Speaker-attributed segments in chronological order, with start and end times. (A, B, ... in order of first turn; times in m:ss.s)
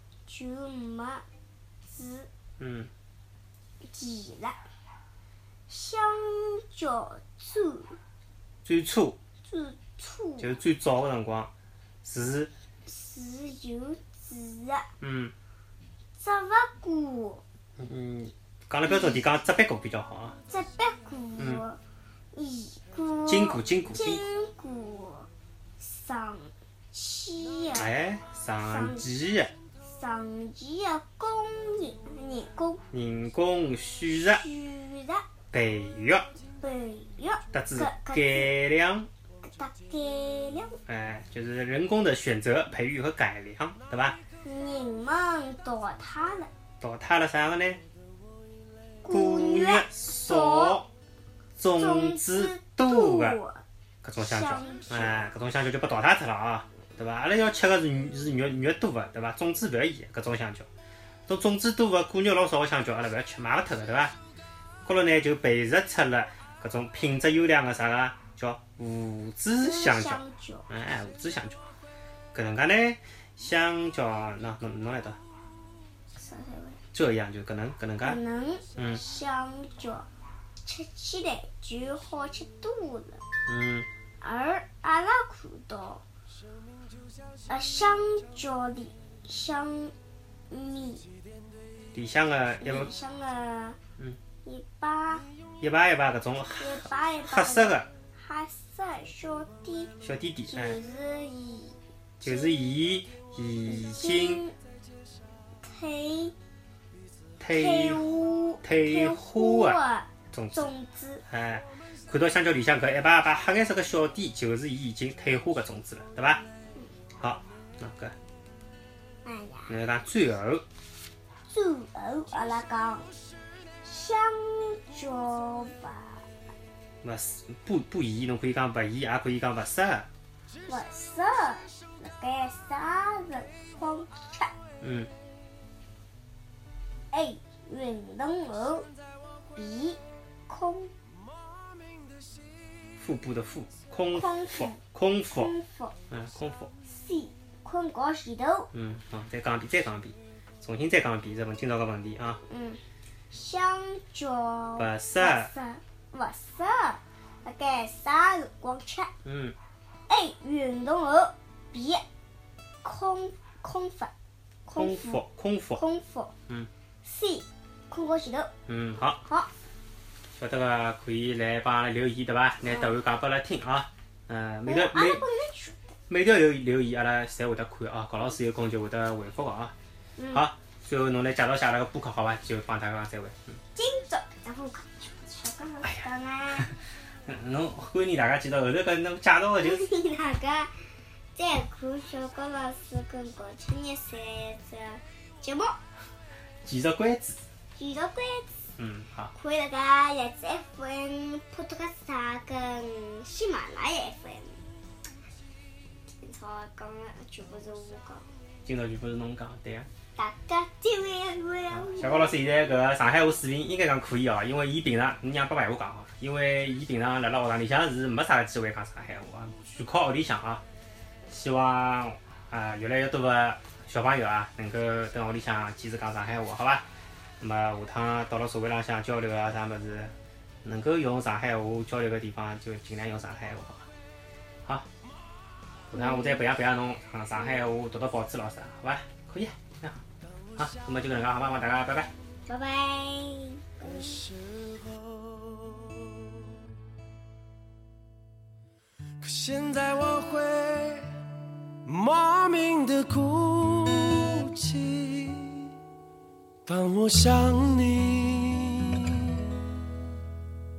0:00.3-0:01.2 A
0:01.8-0:02.3 A
0:02.6-0:02.9 B
0:03.8-0:04.6 A
0:05.7-0:08.0 A
0:08.6-0:09.2 B
0:09.4-0:10.5 A
0:10.4-0:11.5 B
0:12.0-0:12.5 B
0:12.8-0:14.9 A
0:15.0-0:15.3 B
0:16.2-0:17.4 A
0:17.8-0:20.4 B
0:20.5-0:21.8 A
0:22.3-0:27.9 A
0:23.3-0:24.2 B
0:27.7-0:29.5 B
0:28.7-0:29.1 A
0:29.8-0:32.8 A
0:32.9-0:34.4 B
0:34.1-0:35.2 A
0:35.5-0:36.3 B
0:36.6-0:38.6 A
0:37.5-0:39.1 B
0:39.4-0:40.8 A
0:40.8-0:44.2 B
0:44.4-0:46.5 A
0:46.8-0:47.8 B
0:49.0-0:50.8 A
0:49.1-0:50.9 B
0:51.6-0:53.4 B
0:51.6-0:53.6 A
0:54.0-1:00.7 B
0:54.2-0:55.2 A
1:01.3-1:04.1 B
1:04.8-1:11.7 B
1:09.6-1:10.6 A
1:12.3-1:15.2 B
1:16.2-1:16.8 A
1:16.9-1:18.2 B
1:18.0-1:20.0 A
1:20.6-1:23.2 A
1:23.5-1:23.9 B
1:24.2-1:26.0 A
1:27.5-1:29.9 A
1:30.5-1:31.1 A
1:31.9-1:32.9 B
1:32.6-1:33.8 A
1:34.4-1:35.2 A
1:35.6-1:37.9 B
1:36.6-1:39.9 A
1:40.0-1:40.8 B
1:40.5-1:42.7 A
1:42.2-1:44.4 B
1:43.7-1:44.6 A
1:45.6-1:46.3 A
1:47.4-1:48.1 B
1:47.5-1:51.2 A
1:48.6-1:49.8 B
1:50.3-1:50.7 B
1:51.3-1:56.4 B
1:57.2-1:58.1 B
1:59.2-1:59.7 A
1:59.7-2:00.6 B
2:01.5-2:03.1 A
2:03.8-2:06.2 A
2:07.0-2:10.1 B
2:10.6-2:14.5 A
2:14.8-2:15.1 B
2:17.1-2:18.9 A
2:19.5-2:20.9 A
2:23.0-2:25.5 B
2:24.1-2:24.8 A
2:25.3-2:25.9 A
2:26.1-2:26.7 B
2:26.9-2:28.7 A
2:28.7-2:32.4 B
2:32.5-2:39.1 A
2:34.8-2:35.5 B
2:39.2-2:39.6 B
2:40.1-2:42.0 A
2:42.8-2:44.1 A
2:44.6-2:45.2 A
2:44.7-2:45.8 B
2:45.8-2:46.3 A
2:47.0-2:48.5 A
2:48.7-2:49.2 B
2:50.3-2:55.2 B
2:54.6-2:55.9 A
2:56.1-2:59.7 B
3:00.2-3:00.5 A
3:00.3-3:03.6 B
3:03.7-3:06.7 A
3:07.2-3:09.8 B
3:09.6-3:10.8 A
3:11.3-3:15.7 A
3:16.6-3:17.4 B
3:17.8-3:18.6 A
3:18.8-3:19.3 B
3:19.3-3:24.6 A
3:26.1-3:28.2 A
3:28.6-3:29.9 B
3:30.2-3:32.4 A
3:31.7-3:40.6 B
3:41.3-3:46.8 B
3:47.4-3:50.1 B
3:50.6-3:53.9 B
3:55.9-4:00.0 B
3:55.9-3:56.4 A
4:00.6-4:02.1 B
4:02.5-4:04.3 A
4:05.1-4:06.0 C
4:09.2-4:11.2 C
4:11.8-4:15.7 C
4:16.6-4:19.4 C